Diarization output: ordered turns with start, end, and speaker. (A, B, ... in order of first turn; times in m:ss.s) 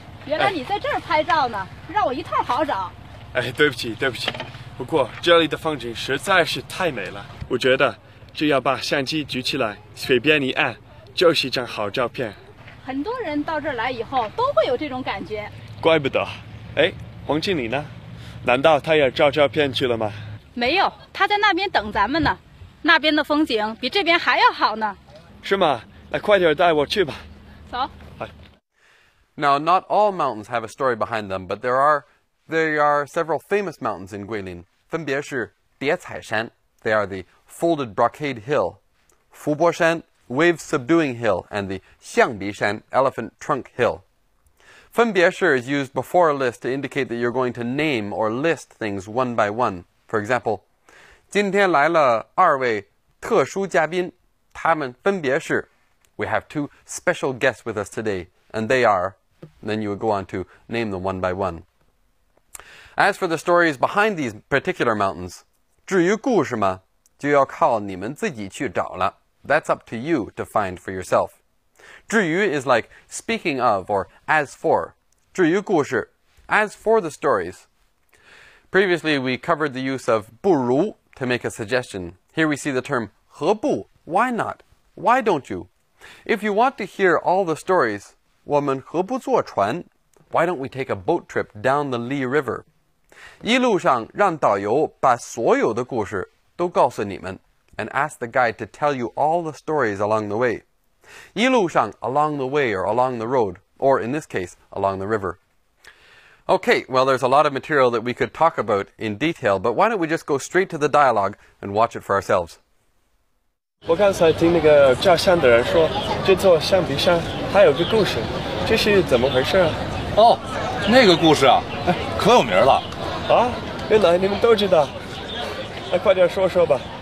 0:00.2-0:02.9 A
0:03.3-0:12.4 B
0:12.8-0:15.5 A
0:15.8-0:17.9 B
0:18.4-0:20.2 B
0:20.5-0:25.0 A
0:25.4-0:27.2 B
0:29.4-0:38.8 C
0:39.3-0:44.0 C
0:44.9-0:50.6 C
0:51.3-1:01.6 C
1:03.0-1:11.4 C
1:12.1-1:17.7 C
1:18.7-1:25.7 C
1:26.2-1:32.6 C
1:33.4-1:40.6 C
1:41.4-1:45.4 C
1:46.5-1:52.6 C
1:53.8-1:59.8 B
2:00.2-2:02.9 D
2:03.3-2:04.9 B
2:05.9-2:06.9 B